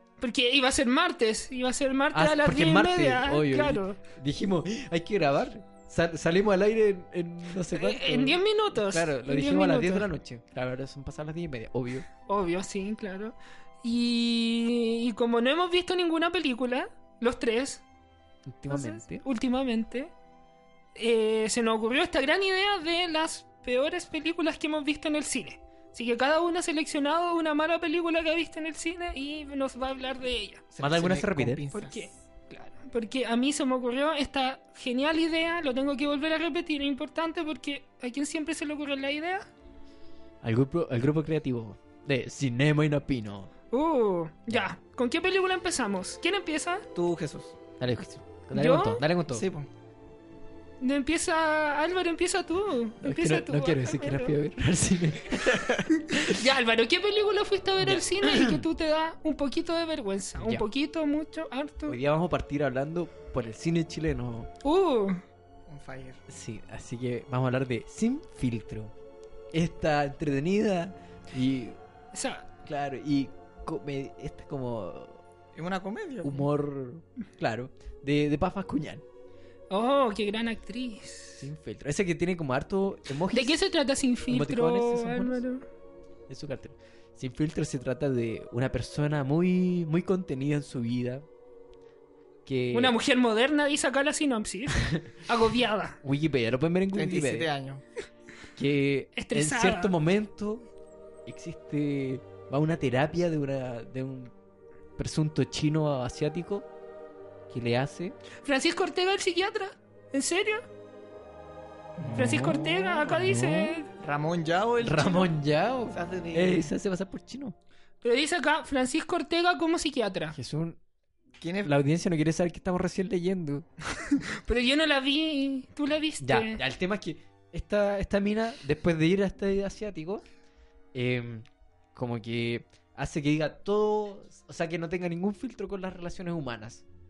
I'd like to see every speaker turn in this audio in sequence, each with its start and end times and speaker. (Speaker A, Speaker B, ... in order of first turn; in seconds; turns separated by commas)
Speaker A: 0.2-4.0, Speaker B: 2.1-12.1, Speaker A: 7.7-10.1, Speaker A: 12.3-17.8, Speaker B: 18.4-19.2, Speaker A: 18.7-20.1, Speaker A: 20.9-30.6, Speaker C: 30.7-32.1, Speaker B: 30.8-31.6, Speaker A: 31.7-39.5, Speaker B: 40.4-43.5, Speaker A: 43.7-46.9, Speaker C: 46.9-47.5, Speaker B: 47.8-49.5, Speaker A: 48.5-49.0, Speaker C: 49.3-49.7, Speaker A: 50.8-54.3, Speaker B: 53.0-56.4, Speaker A: 56.1-62.0, Speaker B: 57.8-58.6, Speaker B: 60.4-60.7, Speaker B: 61.9-64.5, Speaker A: 64.6-65.2, Speaker C: 65.7-66.2, Speaker B: 66.3-68.9, Speaker B: 69.5-71.8, Speaker A: 72.1-72.5, Speaker B: 72.6-75.2, Speaker C: 75.5-76.5, Speaker B: 76.2-79.0, Speaker A: 79.7-81.4, Speaker B: 81.4-83.6, Speaker A: 83.3-85.6, Speaker B: 84.3-85.4, Speaker B: 86.3-91.2, Speaker B: 92.4-93.0, Speaker A: 92.7-96.0, Speaker B: 96.0-97.5, Speaker C: 96.9-97.8, Speaker B: 98.5-100.7, Speaker A: 99.2-99.9, Speaker B: 101.2-104.3, Speaker B: 105.0-106.7, Speaker B: 107.5-108.2, Speaker A: 108.4-110.6, Speaker C: 112.0-112.6, Speaker B: 112.0-113.8, Speaker A: 112.2-113.9, Speaker C: 113.9-115.3, Speaker B: 114.8-117.5, Speaker C: 115.9-116.7, Speaker A: 118.0-120.3, Speaker B: 120.3-120.8, Speaker C: 121.4-121.7, Speaker B: 121.6-123.7, Speaker A: 124.1-126.6, Speaker B: 126.2-130.2, Speaker B: 130.9-136.8